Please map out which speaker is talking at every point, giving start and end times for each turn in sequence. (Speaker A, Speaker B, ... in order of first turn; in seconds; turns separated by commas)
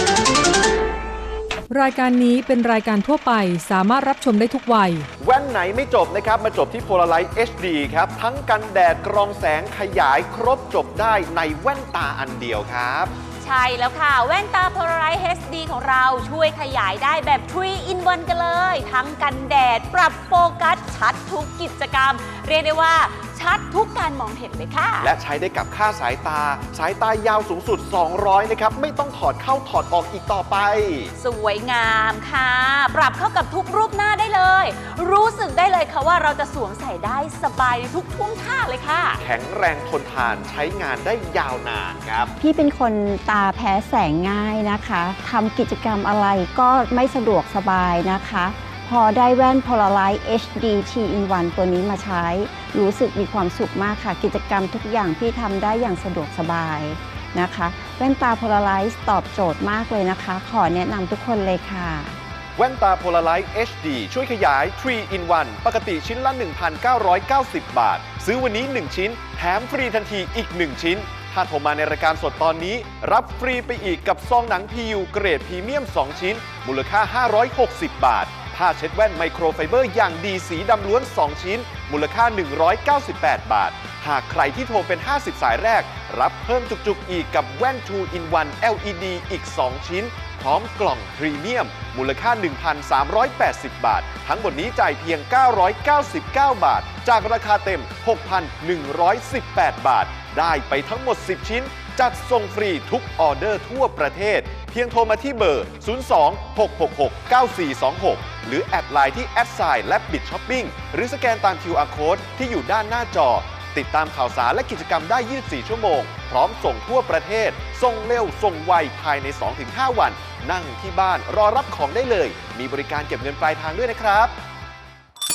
Speaker A: 1.7-5.1, Speaker B: 5.2-13.1, Speaker C: 13.4-25.1, Speaker B: 25.0-31.1, Speaker C: 31.2-39.2, Speaker B: 39.2-42.3, Speaker D: 42.4-62.1, Speaker B: 62.6-124.3